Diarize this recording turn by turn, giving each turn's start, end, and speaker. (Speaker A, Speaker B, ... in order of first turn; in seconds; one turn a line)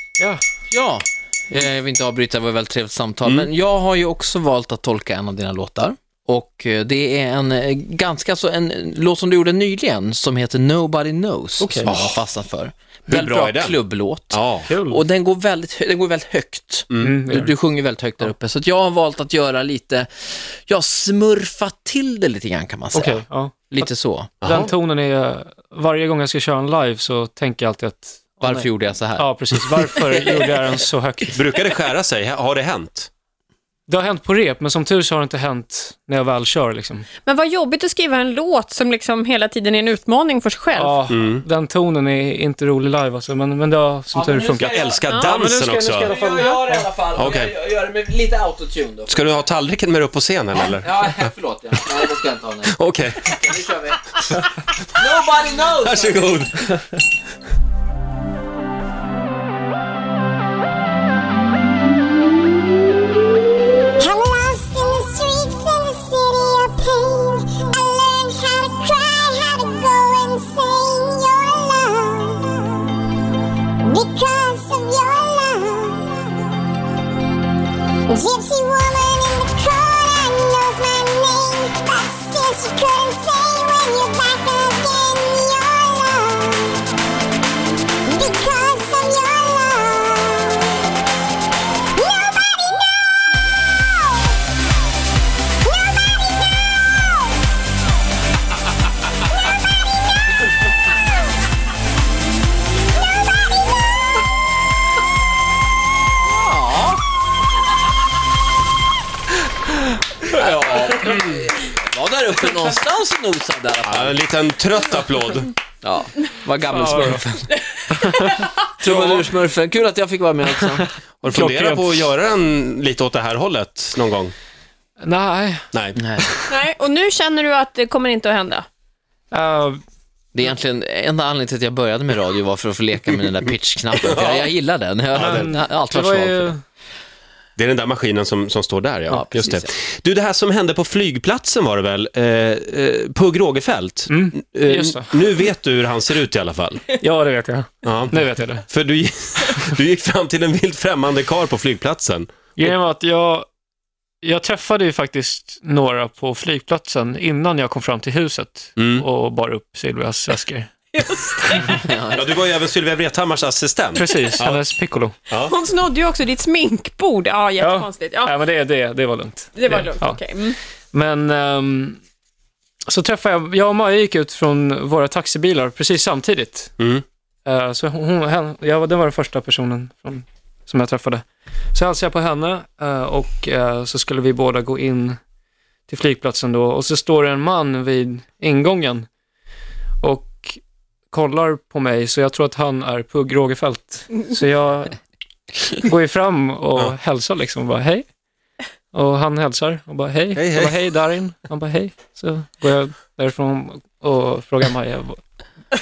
Speaker A: 0.7-24.4
Speaker B: 3.2-3.5
Speaker C: 11.6-11.9
Speaker B: 11.8-12.2
Speaker B: 13.1-13.8
Speaker B: 14.3-14.7
Speaker C: 14.6-15.0
Speaker B: 16.9-17.2
Speaker C: 16.9-17.5
Speaker C: 22.9-31.4
Speaker B: 24.4-24.7
Speaker A: 28.4-29.9
Speaker B: 31.3-33.1
Speaker C: 33.9-37.1
Speaker D: 37.2-41.0
Speaker C: 40.7-46.9
Speaker B: 41.1-41.4
Speaker A: 44.1-45.0
Speaker B: 44.6-46.1
Speaker D: 45.1-45.4
Speaker A: 46.0-49.2
Speaker B: 47.1-47.5
Speaker B: 49.1-51.2
Speaker A: 50.7-54.3
Speaker B: 52.7-53.4
Speaker A: 55.0-56.4
Speaker B: 55.8-56.8
Speaker E: 64.0-72.4
Speaker E: 73.9-75.9
Speaker D: 74.3-74.6
Speaker E: 78.2-86.5
Speaker E: 88.2-90.4
Speaker A: 106.3-107.0
Speaker A: 110.3-114.2
Speaker B: 111.0-111.3
Speaker B: 113.8-115.5
Speaker A: 115.8-117.4
Speaker C: 116.7-117.2
Speaker D: 117.7-118.5
Speaker C: 117.9-118.3
Speaker A: 118.8-120.9
Speaker B: 118.9-119.2
Speaker C: 120.6-122.1
Speaker B: 121.2-124.3
Speaker C: 125.0-125.7
Speaker B: 125.7-126.0
Speaker A: 126.0-126.3
Speaker D: 126.5-128.7
Speaker C: 129.3-129.8
Speaker A: 130.3-136.5
Speaker B: 134.0-134.5
Speaker B: 135.1-135.6
Speaker C: 135.1-136.6
Speaker B: 137.6-146.9
Speaker A: 139.1-139.7
Speaker C: 144.1-145.2
Speaker C: 147.0-148.7
Speaker B: 147.8-152.3
Speaker C: 152.6-153.4
Speaker C: 154.2-160.7
Speaker B: 158.8-159.1
Speaker D: 160.9-161.8
Speaker A: 161.8-162.2
Speaker B: 162.1-164.6
Speaker C: 163.9-165.2
Speaker B: 165.3-165.5
Speaker D: 165.4-168.4
Speaker C: 167.6-170.2
Speaker D: 169.6-170.6
Speaker C: 170.9-172.0
Speaker C: 172.9-176.8
Speaker B: 176.8-177.0
Speaker C: 177.4-185.2
Speaker C: 185.9-189.1
Speaker C: 190.0-190.6
Speaker C: 191.1-195.0
Speaker C: 195.7-198.1
Speaker C: 198.9-205.2
Speaker B: 200.3-200.7